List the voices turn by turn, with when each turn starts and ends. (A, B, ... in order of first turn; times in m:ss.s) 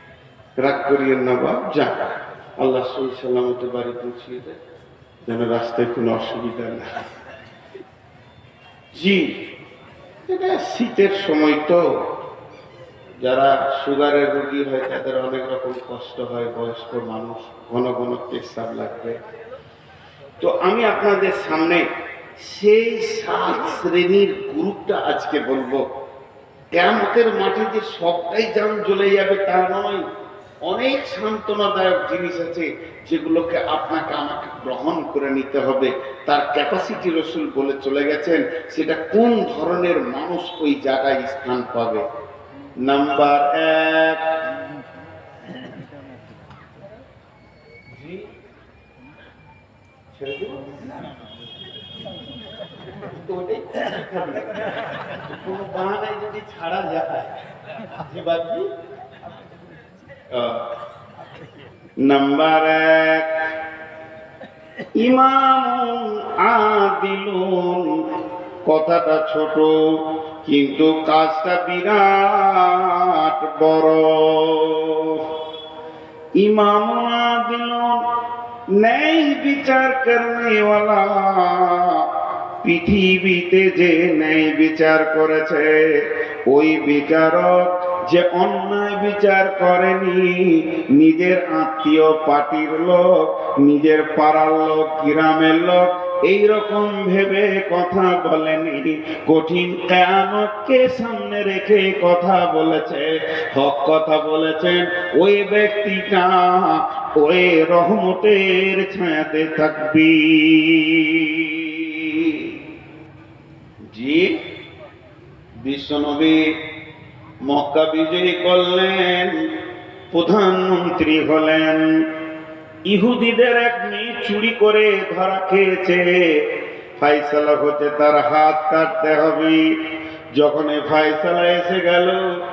0:00.6-0:04.6 A
0:05.2-0:07.1 A
0:09.0-0:09.3 A
0:10.3-0:11.8 A
0:13.2-0:19.2 A
0:20.4-0:21.8 A
0:22.4-0:25.8 A
0:26.7-0:30.1 A
0:30.7-0:42.0 A
0:42.9-0:44.2 A
0:47.9-0:48.3 A
0:50.1-0:51.0 A
0:53.1-0:54.6 A
0:55.2-0:57.3 A
0:58.0-0:58.7 A
1:00.3-1:00.6 A
1:02.0-1:03.3 A
1:05.0-1:08.0 A
1:08.7-1:09.8 A
1:10.4-1:15.3 A
1:16.4-1:18.0 A
1:18.7-1:22.1 A
1:22.6-1:52.6 A
1:53.9-1:54.3 A
1:55.6-1:56.5 A
1:57.4-1:59.5 A
2:00.1-2:02.1 A
2:02.9-2:06.5 A
2:07.0-2:09.7 A
2:10.4-2:12.2 A